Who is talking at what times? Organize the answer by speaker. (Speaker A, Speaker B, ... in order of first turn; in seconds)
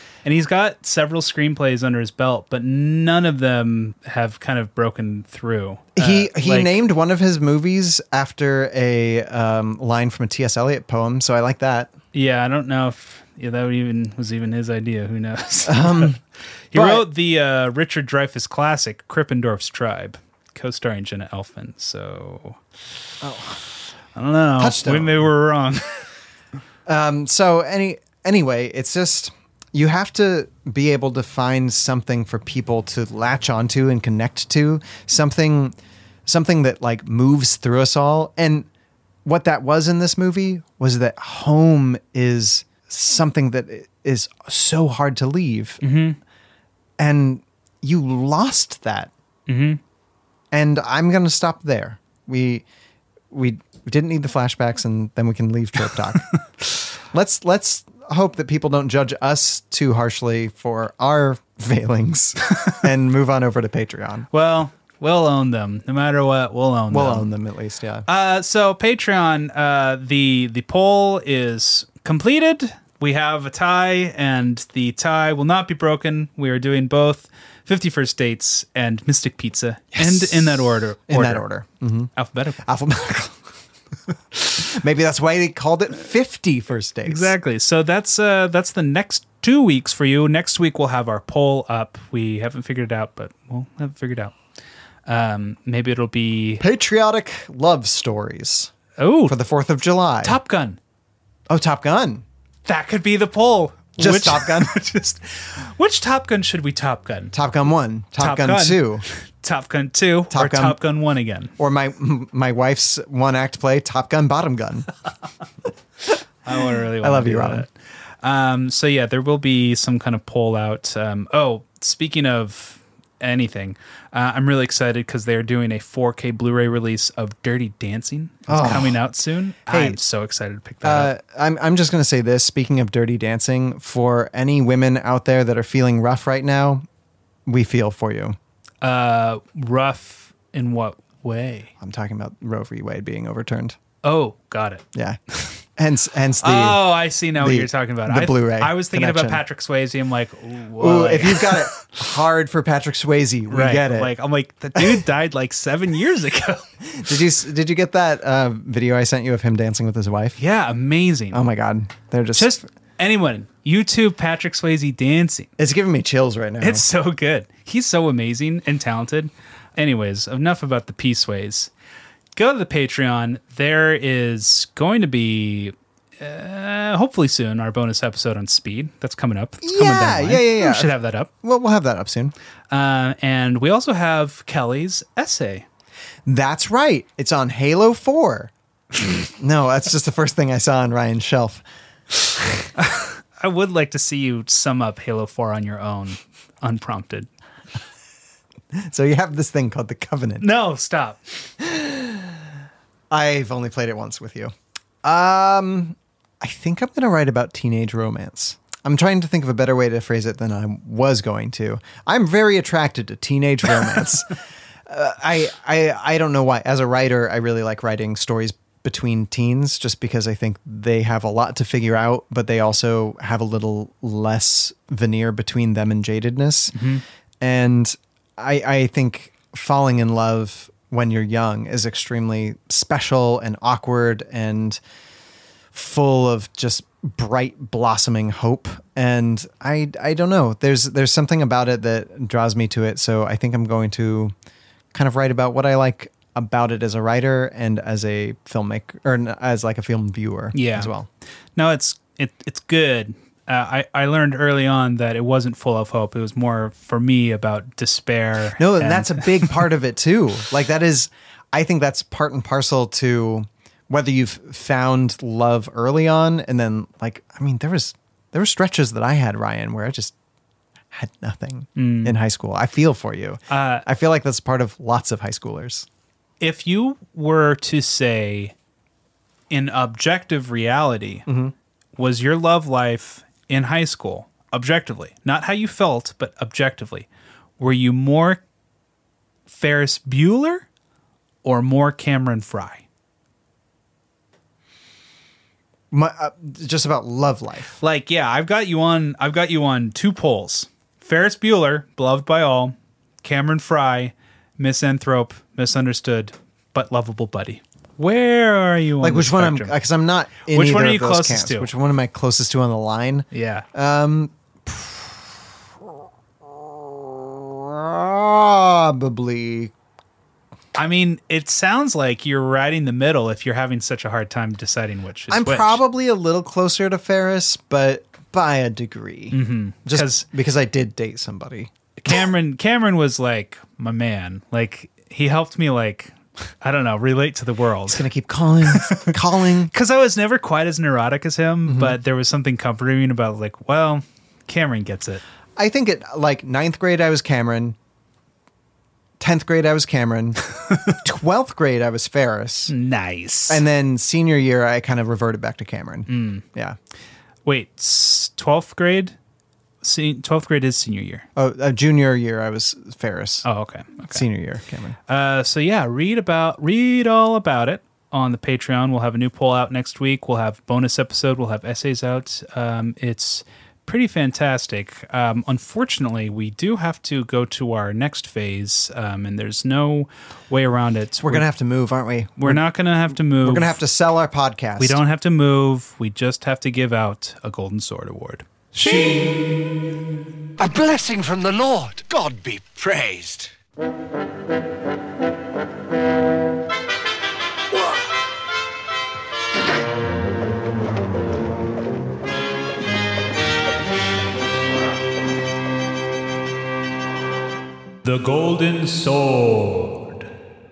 Speaker A: 0.2-6.8, 12.1-16.2, 16.7-22.6, 24.1-26.1, 45.8-46.2, 49.5-49.8, 64.3-67.3, 68.1-81.5, 82.2-82.6, 87.1-94.4, 95.1-96.6, 99.0-99.4, 100.2-100.8, 102.7-107.3, 108.2-111.5, 116.5-117.7, 118.2-131.1, 138.8-141.7, 144.0-145.5, 146.4-151.8, 153.5-156.7, 160.4-161.4, 162.3-165.5, 166.6-171.7, 172.3-181.3, 182.7-185.7, 192.8-197.3, 200.4-201.2, 226.7-227.0, 250.5-250.9, 251.6-259.7, 271.8-272.2, 273.5-273.9, 276.4-278.5, 279.5-281.2, 282.0-287.1, 287.6-288.4, 289.5-290.6, 291.4-292.8, 297.8-309.8, 310.5-311.7, 313.3-313.7, 320.8-325.8, 329.3-330.3, 332.0-338.1, 338.6-339.2, 339.7-345.2, 350.7-350.9, 352.7-353.6, 356.1-356.4, 357.4-359.2, 359.8-361.3, 363.4-364.2, 365.1-381.5, 382.4-383.8, 384.8-389.6, 408.0-410.3
Speaker B: 6.0-11.9, 15.7-16.2, 16.7-17.1, 23.2-23.6, 24.6-25.2, 26.9-35.7, 36.3-38.7, 39.2-45.8, 47.0-49.1, 50.5-52.6, 53.3-56.3, 57.1-64.3, 66.9-68.1, 79.9-82.1, 82.6-83.4, 84.5-87.3, 96.6-98.7, 99.3-100.4, 101.5-102.2, 104.0-104.8, 107.3-109.0, 110.3-110.8, 111.6-114.9, 117.0-117.7, 128.5-129.0, 129.7-130.0, 130.8-136.8, 137.5-138.4, 141.8-143.8, 145.8-146.8, 147.3-149.4, 150.8-154.1, 156.8-160.4, 161.3-162.6, 165.6-166.9, 179.6-182.3, 186.3-188.5, 189.3-191.6, 198.7-200.5, 201.6-202.3, 203.1-204.5, 205.0-214.3, 214.9-226.8, 227.4-234.8, 235.7-244.3, 244.9-251.1, 258.6-270.1, 270.9-275.9, 281.3-281.5, 295.9-297.8, 309.0-315.2, 316.4-319.7, 325.3-331.7, 337.9-339.7, 341.7-342.0, 345.6-347.8, 349.2-350.4, 351.0-352.7, 353.5-356.8, 361.4-363.5, 364.1-365.0, 381.2-382.6, 383.4-385.0
Speaker C: 390.6-393.5